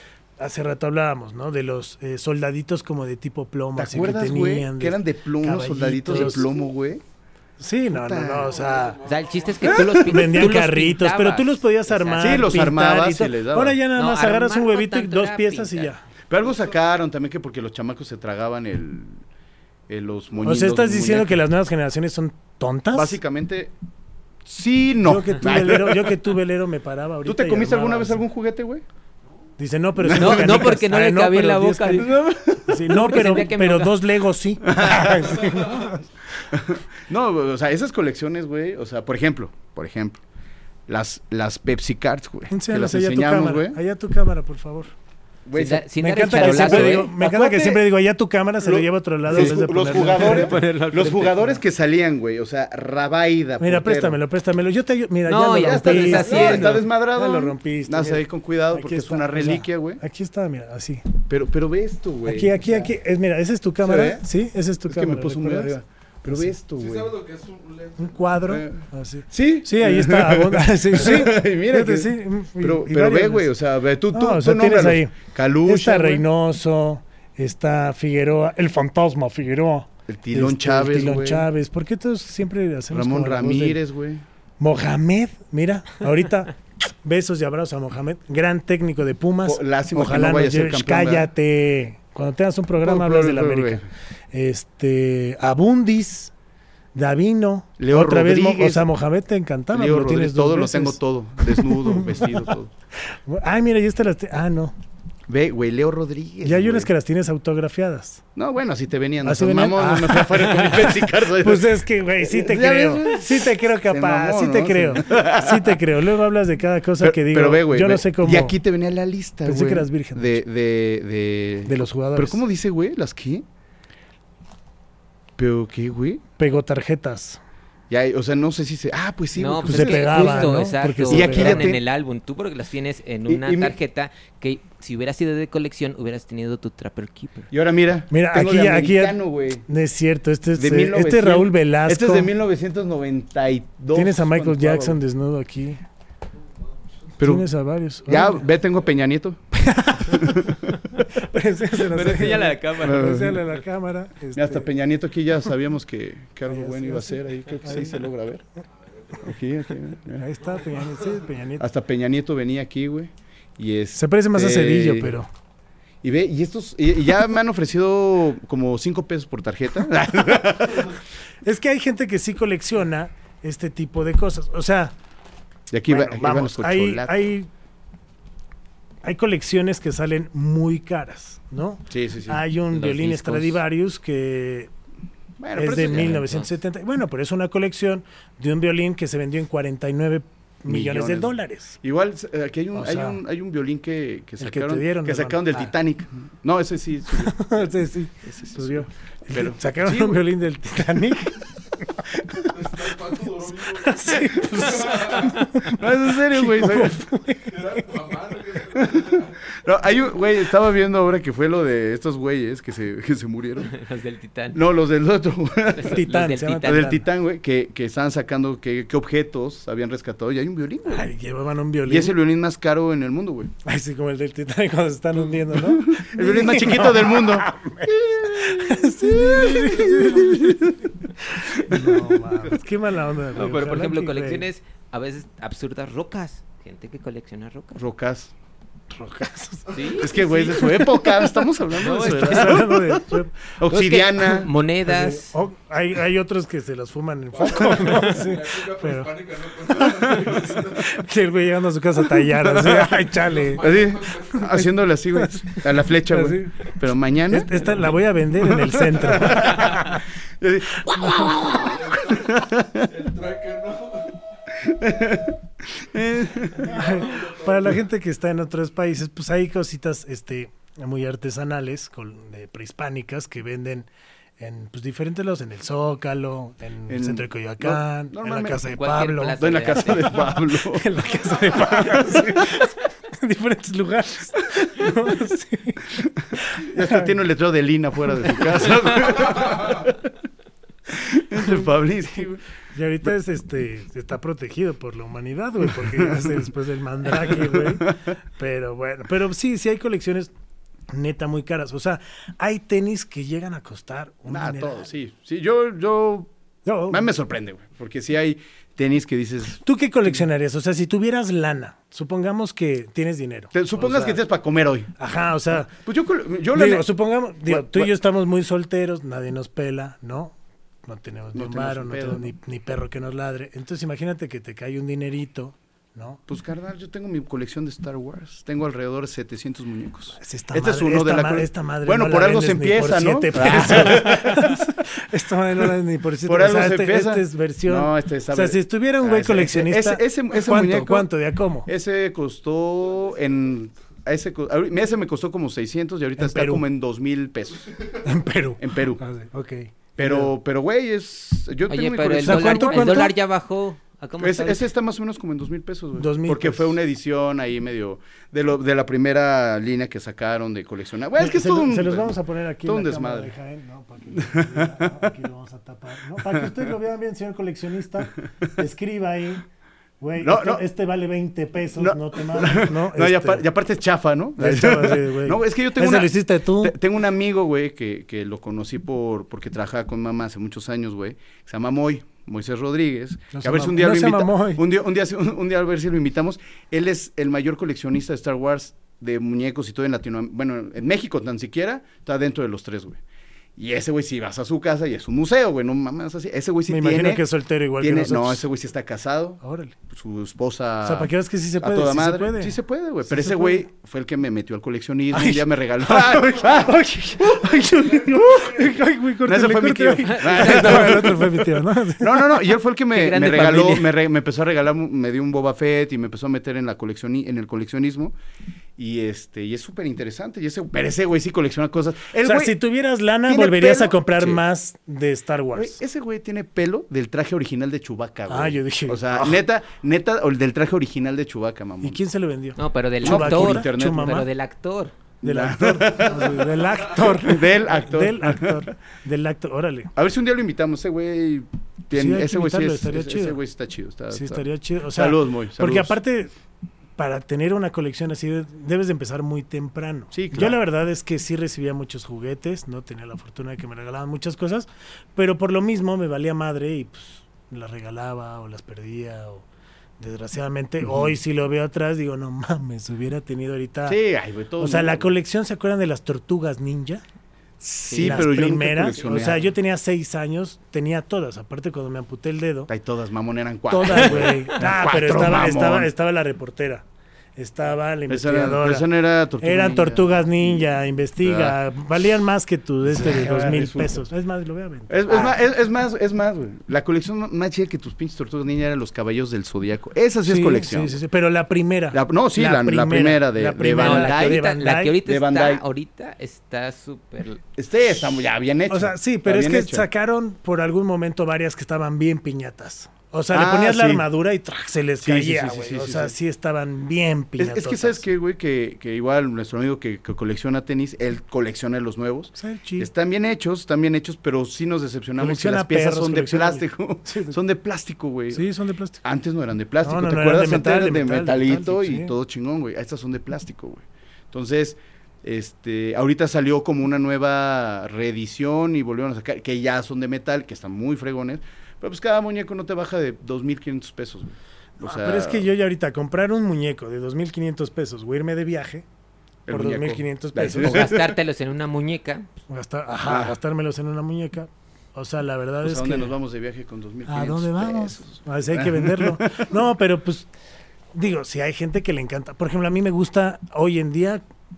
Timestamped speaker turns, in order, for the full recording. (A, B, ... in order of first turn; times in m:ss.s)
0:00.4-0:06.5 A
0:03.8-0:07.0 B
0:07.6-0:09.0 A
0:07.9-0:08.6 B
0:08.4-0:09.9 C
0:09.0-0:12.7 D
0:09.7-0:10.1 B
0:10.0-0:16.0 A
0:12.2-0:13.8 B
0:13.9-0:15.9 D
0:16.3-0:19.2 B
0:19.9-0:21.4 B
0:20.4-0:23.2 A
0:22.9-0:23.7 B
0:24.4-0:26.2 B
0:25.0-0:28.2 A
0:27.2-0:28.8 B
0:29.6-0:36.0 A
0:30.0-0:30.8 B
0:30.1-0:34.1 D
0:31.9-0:32.8 B
0:34.6-0:35.5 B
0:36.5-0:40.2 B
0:40.9-0:43.8 B
0:42.5-0:44.9 A
0:45.4-0:47.8 B
0:45.5-0:47.1 D
0:46.0-0:50.6 A
0:48.6-0:54.2 B
0:49.3-0:51.6 D
0:53.6-1:01.0 A
0:55.3-0:56.8 D
0:55.6-1:00.0 B
1:01.3-1:02.9 B
1:02.2-1:05.8 A
1:03.8-1:04.2 B
1:04.9-1:07.1 B
1:06.3-1:06.5 A
1:06.7-1:08.2 C
1:08.0-1:13.5 A
1:08.5-1:16.2 B
1:14.1-1:23.8 A
1:20.1-1:21.5 B
1:22.9-1:24.2 B
1:24.6-1:36.3 A
1:29.4-1:31.3 B
1:32.8-1:33.9 B
1:36.9-1:42.5 A
1:37.8-1:38.9 B
1:39.7-1:42.7 B
1:43.1-1:44.7 A
1:45.3-1:46.9 B
1:46.4-1:48.2 A
1:48.3-1:55.8 B
1:49.2-1:58.6 A
1:57.0-2:03.4 B
1:59.4-2:00.4 A
2:01.6-2:02.4 A
2:05.4-2:06.2 B
2:06.4-2:07.4 A
2:07.9-2:11.8 B
2:09.4-2:17.5 D
2:09.6-2:11.7 A
2:13.2-2:13.8 B
2:17.5-2:19.6 B
2:18.1-2:22.3 A
2:20.5-2:25.0 B
2:23.9-2:25.8 A
2:27.2-2:27.4 B
2:27.2-2:28.4 A
2:28.0-2:29.4 B
2:29.5-2:30.5 A
2:30.0-2:30.6 B
2:31.1-2:34.7 A
2:31.8-2:33.1 D
2:32.8-2:33.4 B
2:34.3-2:38.4 B
2:36.5-2:38.1 A
2:39.0-2:39.2 C
2:39.2-2:40.3 B
2:40.1-2:41.7 A
2:40.4-2:41.2 C
2:41.6-2:45.2 B
2:43.9-2:45.3 A
2:46.0-2:51.0 B
2:51.4-2:54.9 A
2:55.7-2:57.2 B
2:55.9-2:57.5 A
2:59.0-3:04.7 A
3:01.9-3:02.4 B
3:02.7-3:03.6 D
3:05.4-3:06.3 B
3:05.5-3:11.8 A
3:05.9-3:06.5 D
3:10.7-3:17.7 B
3:12.7-3:13.2 A
3:14.4-3:15.4 A
3:17.2-3:22.8 A
3:18.2-3:20.2 B
3:22.5-3:25.3 C
3:23.4-3:28.0 A
3:25.7-3:27.0 B
3:27.5-3:29.4 C
3:28.7-3:33.7 B
3:33.7-3:34.6 D
3:34.5-3:36.0 B
3:35.7-3:36.9 D
3:35.8-3:37.0 A
3:36.6-3:41.1 B
3:40.9-3:42.2 A
3:41.8-3:43.5 B
3:43.6-3:54.4 A
3:45.3-3:50.9 B
3:51.5-3:52.6 B
3:53.3-3:57.8 D
3:57.7-3:58.3 B
3:58.9-4:01.0 A
3:59.7-4:00.8 D
4:00.0-4:04.5 B
4:01.7-4:03.4 A
4:01.8-4:02.6 D
4:03.7-4:05.3 D
4:04.8-4:13.6 A
4:07.3-4:11.0 C
4:12.2-4:12.9 B
4:13.2-4:14.5 C
4:13.6-4:17.8 B
4:14.3-4:20.0 A
4:18.4-4:22.9 B
4:20.7-4:21.7 A
4:21.5-4:24.2 C
4:24.6-4:26.8 B
4:26.6-4:27.7 C
4:26.6-4:33.9 A
4:34.4-4:47.2 A
4:36.9-4:38.6 B
4:38.7-4:40.3 D
4:39.4-4:42.6 B
4:46.5-4:50.1 B
4:50.9-4:52.4 B
4:52.7-5:00.3 A
4:55.8-4:56.4 B
4:57.2-4:58.0 B
5:00.9-5:04.9 A
5:04.3-5:06.3 B
5:06.6-5:07.1 A
5:06.9-5:09.6 B
5:09.6-5:14.2 A
5:13.5-5:14.9 B
5:15.0-5:15.7 A
5:15.7-5:16.9 B
5:16.5-5:20.3 A
5:17.4-5:17.9 B
5:20.8-5:26.2 A
5:21.3-5:22.3 B
5:26.3-5:34.7 B
5:30.2-5:41.7 A
5:36.2-5:41.1 B
5:41.6-5:47.7 B
5:46.2-5:46.6 A
5:48.0-5:50.3 A
5:48.6-5:49.0 B
5:50.0-5:53.1 B
5:51.7-5:54.6 D
5:52.2-5:53.1 A
5:54.2-6:03.3 B
5:56.0-5:56.8 A
6:01.2-6:09.4 A
6:04.1-6:05.1 B
6:06.2-6:06.7 B
6:10.0-6:13.4 A
6:10.2-6:10.6 B
6:11.8-6:33.0 B
6:14.4-6:16.8 A
6:23.3-6:24.6 A
6:33.6-6:37.2 B
6:36.7-6:38.5 A
6:37.8-6:48.6 B
6:39.4-6:39.8 A
6:40.8-6:43.7 A
6:45.1-6:52.3 A
6:49.2-6:58.1 B
6:50.1-6:51.1 D
6:52.9-6:53.9 D
6:58.8-7:02.6 B
7:02.2-7:05.8 A
7:03.3-7:04.4 B
7:05.5-7:12.0 B
7:08.3-7:09.4 A
7:11.8-7:14.3 A
7:12.6-7:14.9 D
7:13.0-7:14.2 B
7:15.2-7:18.7 B
7:15.2-7:19.9 A
7:19.9-7:26.0 B
7:21.9-7:23.4 A
7:24.1-7:26.3 A
7:27.0-7:39.4 A
7:30.1-7:30.6 B
7:40.0-7:44.0 A
7:40.8-7:41.1 B
7:43.8-7:45.1 B
7:44.6-7:47.0 A
7:47.6-7:49.5 B
7:47.9-7:48.2 D
7:48.0-7:52.7 A
7:52.7-7:55.9 B
7:53.7-7:56.8 A
7:57.4-7:58.9 A
7:58.1-8:01.6 B
7:59.4-8:05.3 A
8:02.8-8:04.1 B
8:04.9-8:11.0 B
8:10.2-8:15.0 A
8:11.9-8:14.4 B
8:13.8-8:17.4 D
8:15.0-8:15.6 B
8:17.6-8:19.9 B
8:18.7-8:28.0 A
8:23.3-8:24.0 B
8:25.0-8:26.1 B
8:27.4-8:38.5 B
8:32.3-8:32.9 A
8:35.2-8:37.4 A
8:38.3-8:39.0 A
8:39.0-8:55.5 B
8:39.8-8:42.1 A
8:54.8-8:58.8 A
8:59.5-9:01.1 B
8:59.5-9:00.9 A
9:00.6-9:02.3 D
9:02.5-9:06.2 A
9:03.0-9:03.4 B
9:05.6-9:09.6 B
9:07.0-9:10.3 A
9:10.9-9:14.2 A